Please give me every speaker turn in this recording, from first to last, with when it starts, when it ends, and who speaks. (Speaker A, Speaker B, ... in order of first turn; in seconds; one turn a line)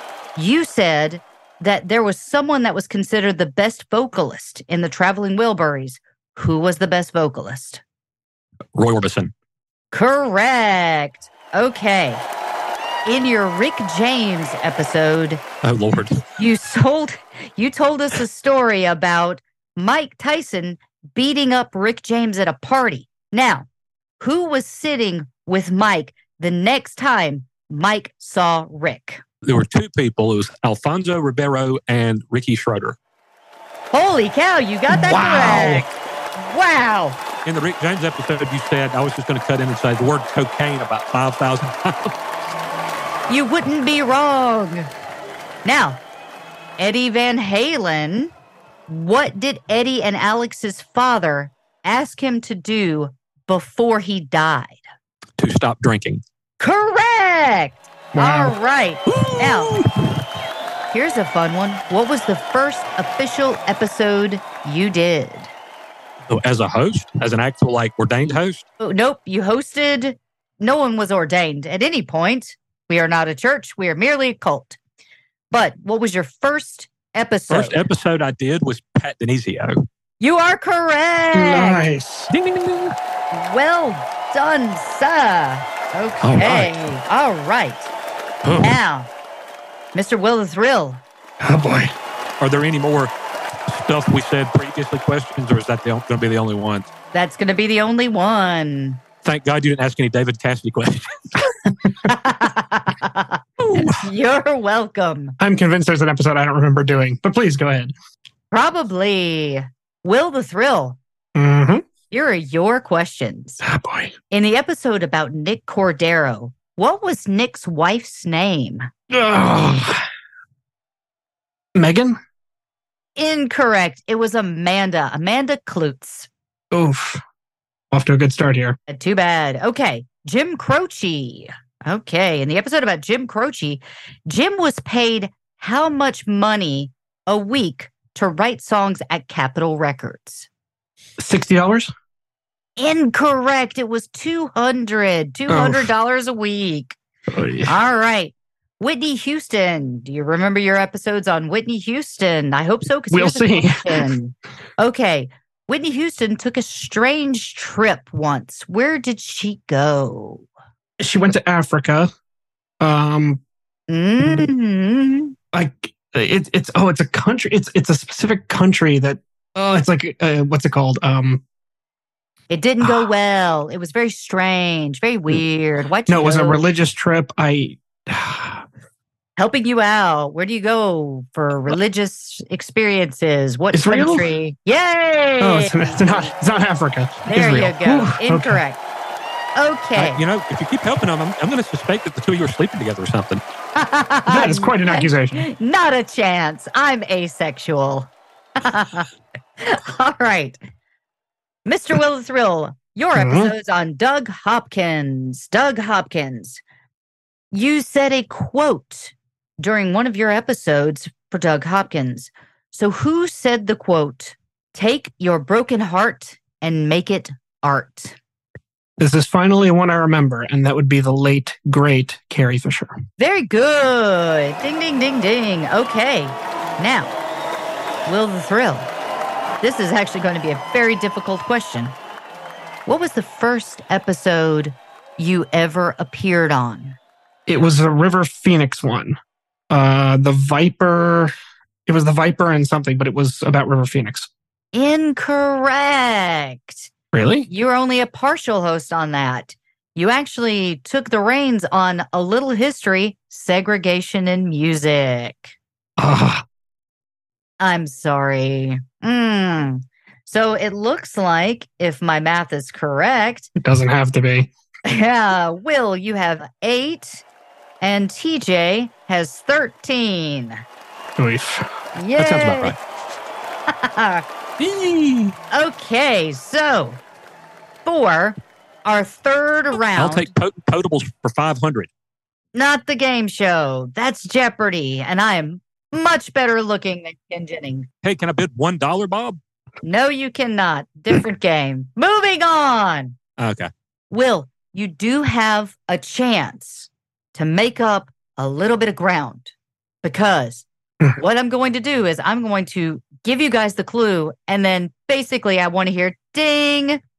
Speaker A: 0.3-7.8
Speaker B: 8.7-9.3
Speaker A: 9.9-12.2
Speaker A: 13.1-15.4
Speaker B: 15.6-16.2
Speaker A: 16.4-23.7
Speaker A: 24.2-29.2
Speaker B: 29.4-33.0
Speaker A: 33.9-37.2
Speaker B: 35.1-35.8
Speaker B: 37.5-42.1
Speaker A: 43.3-44.9
Speaker A: 45.6-46.0
Speaker A: 46.8-48.3
Speaker A: 48.9-54.8
Speaker B: 55.4-56.2
Speaker A: 56.6-59.8
Speaker C: 58.1-58.5
Speaker B: 59.1-59.9
Speaker A: 60.9-65.5
Speaker B: 66.3-68.6
Speaker A: 68.8-74.8
Speaker A: 75.5-77.8
Speaker B: 77.5-79.8
Speaker A: 80.2-81.8
Speaker C: 81.3-82.3
Speaker B: 82.3-82.9
Speaker A: 83.3-87.9
Speaker B: 86.2-86.7
Speaker B: 88.4-88.7
Speaker A: 88.6-89.1
Speaker A: 89.9-91.0
Speaker C: 91.4-91.9
Speaker B: 92.4-93.1
Speaker B: 93.7-96.9
Speaker A: 97.1-99.0
Speaker B: 99.2-101.2
Speaker A: 102.0-105.3
Speaker B: 103.6-104.0
Speaker C: 105.4-107.9
Speaker A: 108.5-111.0
Speaker C: 111.3-111.8
Speaker A: 112.1-113.6
Speaker C: 113.6-114.1
Speaker A: 114.3-118.9
Speaker C: 119.1-120.0
Speaker C: 121.7-122.2
Speaker A: 123.2-126.3
Speaker C: 126.7-127.2
Speaker C: 127.9-128.8
Speaker A: 128.9-140.5
Speaker C: 141.2-141.9
Speaker A: 142.8-146.9
Speaker C: 145.5-145.9
Speaker C: 147.3-147.8
Speaker A: 147.7-160.4
Speaker C: 153.1-154.1
Speaker C: 161.0-162.1
Speaker C: 162.8-163.4
Speaker A: 163.9-165.3
Speaker C: 165.5-171.4
Speaker A: 172.5-176.6
Speaker C: 172.8-173.1
Speaker C: 176.1-178.6
Speaker A: 179.4-186.3
Speaker C: 183.7-184.3
Speaker C: 185.4-188.6
Speaker A: 187.2-188.8
Speaker A: 189.6-190.2
Speaker B: 189.9-193.4
Speaker A: 193.8-199.1
Speaker C: 194.3-195.5
Speaker A: 199.6-200.6
Speaker A: 201.7-206.6
Speaker C: 203.1-203.5
Speaker A: 207.5-218.2
Speaker C: 219.0-223.0
Speaker A: 223.2-227.1
Speaker A: 228.1-228.9
Speaker A: 229.6-231.9
Speaker A: 232.9-237.0
Speaker C: 237.5-239.2
Speaker C: 239.7-241.3
Speaker C: 241.8-244.3
Speaker A: 244.7-246.9
Speaker C: 247.1-247.5
Speaker A: 247.5-255.5
Speaker C: 256.0-256.4
Speaker A: 257.6-263.5
Speaker C: 263.6-264.5
Speaker A: 264.9-267.2
Speaker A: 267.8-270.6
Speaker C: 271.2-271.7
Speaker A: 271.9-272.7
Speaker B: 272.2-272.8
Speaker A: 273.7-274.2
Speaker B: 274.6-275.3
Speaker A: 275.5-277.0
Speaker A: 277.9-280.3
Speaker B: 280.0-281.9
Speaker A: 282.5-287.9
Speaker B: 288.0-289.4
Speaker A: 289.8-293.1
Speaker B: 293.4-293.7
Speaker A: 294.1-299.5
Speaker A: 300.0-300.6
Speaker A: 301.1-307.0